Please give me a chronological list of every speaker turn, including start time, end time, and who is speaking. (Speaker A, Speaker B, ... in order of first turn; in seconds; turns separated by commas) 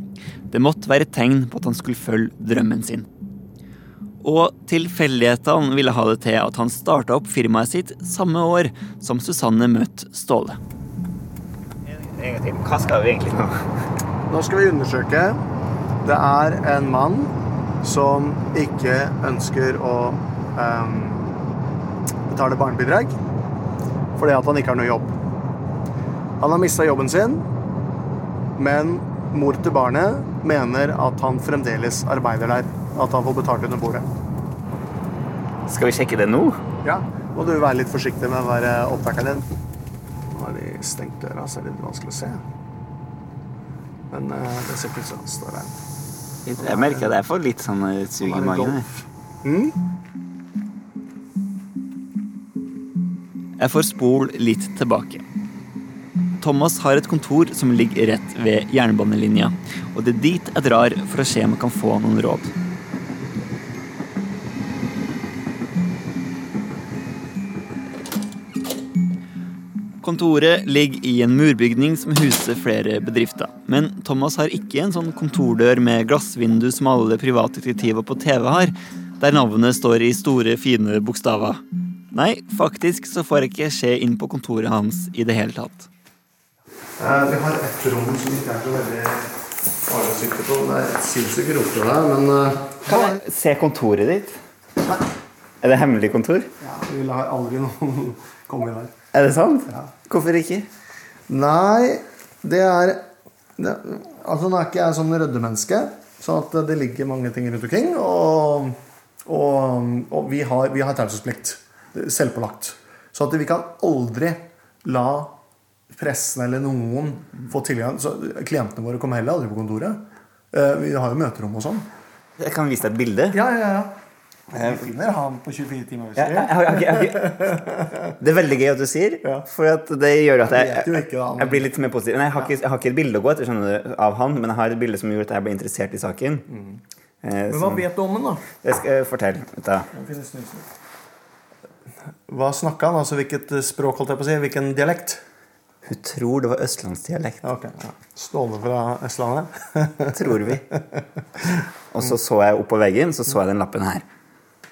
Speaker A: 0.5-3.1, Speaker A: 4.2-10.6, Speaker A: 11.9-13.7, Speaker B: 14.3-15.4, Speaker B: 16.0-21.4, Speaker B: 22.3-23.2, Speaker B: 24.2-25.2, Speaker B: 26.4-27.5, Speaker B: 28.6-34.1, Speaker A: 35.7-36.6, Speaker B: 36.8-39.5, Speaker B: 40.3-42.4, Speaker B: 44.1-45.8, Speaker A: 46.5-48.9, Speaker B: 46.6-47.1, Speaker B: 48.2-49.8, Speaker A: 53.6-55.2, Speaker A: 56.4-62.5, Speaker A: 70.0-81.6, Speaker A: 82.1-85.9, Speaker B: 87.0-93.2, Speaker A: 92.9-94.4, Speaker A: 95.6-96.5, Speaker B: 96.6-98.9, Speaker A: 99.1-100.7, Speaker B: 101.3-115.4, Speaker B: 115.9-121.9, Speaker A: 122.4-123.4, Speaker B: 123.3-124.0, Speaker B: 124.5-128.2, Speaker A: 124.6-124.9, Speaker A: 126.2-127.3, Speaker A: 128.2-136.5, Speaker B: 130.4-131.7, Speaker B: 136.5-136.8, Speaker A: 137.2-137.8, Speaker B: 137.5-138.4, Speaker A: 138.6-139.9, Speaker B: 139.9-140.7, Speaker B: 142.3-145.2, Speaker A: 145.9-147.4, Speaker B: 147.4-152.2, Speaker A: 150.1-150.6, Speaker A: 151.9-154.1